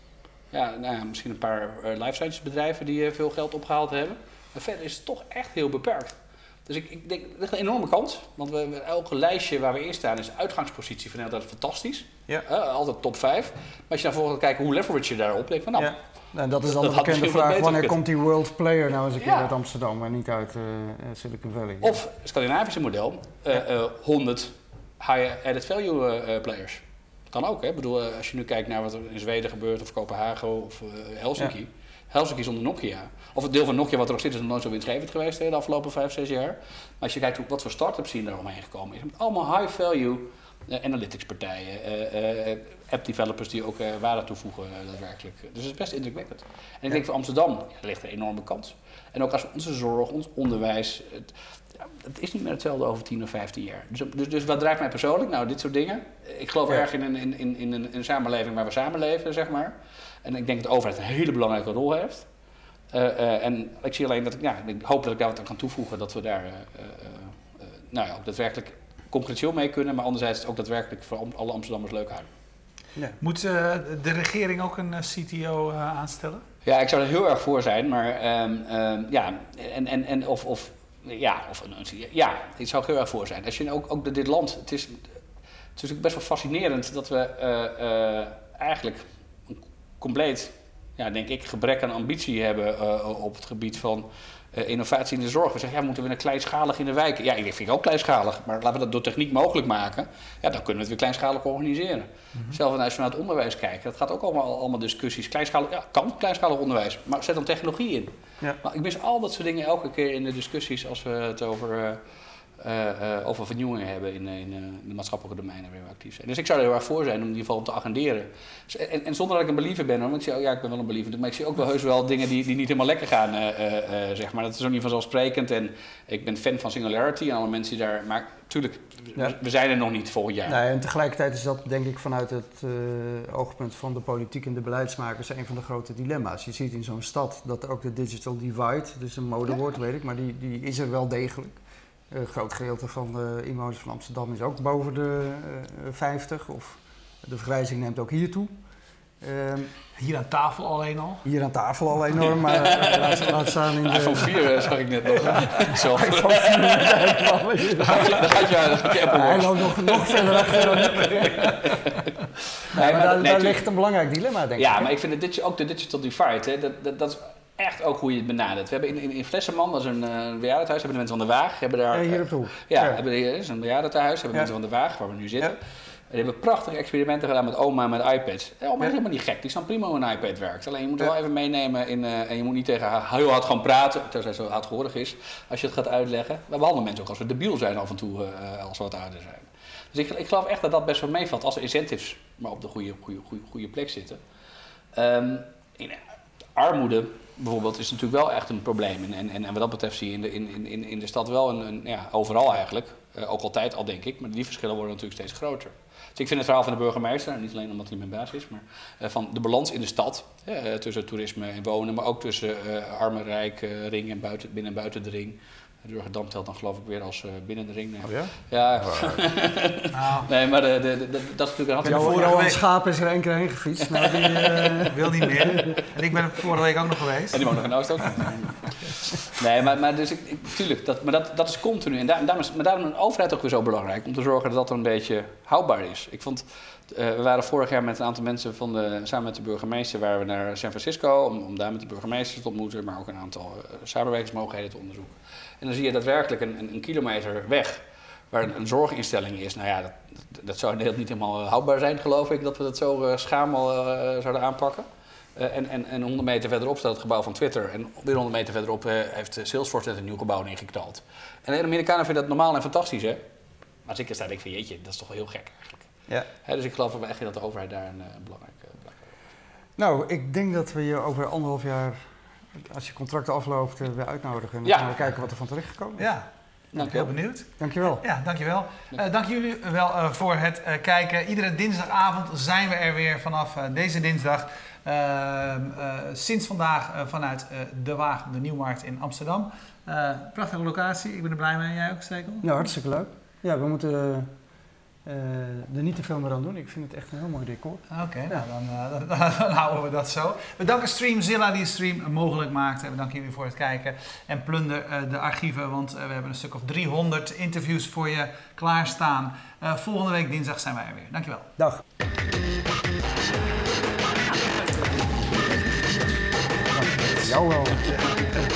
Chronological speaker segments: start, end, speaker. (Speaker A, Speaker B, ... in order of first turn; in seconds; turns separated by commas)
Speaker A: 0.5-15.9, Speaker B: 15.8-22.0, Speaker A: 16.6-18.0, Speaker A: 19.2-19.5, Speaker A: 21.8-62.3, Speaker A: 62.9-72.3, Speaker C: 73.2-76.4, Speaker A: 76.6-85.1, Speaker A: 85.8-112.0, Speaker A: 112.6-130.6, Speaker B: 130.4-141.6, Speaker B: 142.1-148.5, Speaker B: 149.2-149.7, Speaker C: 150.0-151.2, Speaker B: 151.2-162.0, Speaker A: 152.2-163.6, Speaker B: 162.7-164.9, Speaker A: 164.6-194.2, Speaker B: 171.9-173.0, Speaker A: 194.9-196.0, Speaker A: 196.6-222.5, Speaker B: 218.0-219.2, Speaker C: 219.9-220.3, Speaker C: 221.8-222.6, Speaker B: 221.8-225.8, Speaker A: 223.9-224.8, Speaker C: 224.8-227.6, Speaker A: 227.3-263.2, Speaker A: 263.9-265.9, Speaker A: 266.4-269.1, Speaker B: 269.8-276.1, Speaker A: 274.6-275.0, Speaker C: 276.0-292.6, Speaker B: 276.8-277.1, Speaker B: 277.6-278.0, Speaker B: 292.4-294.3, Speaker B: 295.0-298.4, Speaker C: 297.9-311.5, Speaker B: 316.7-318.1, Speaker C: 318.1-318.3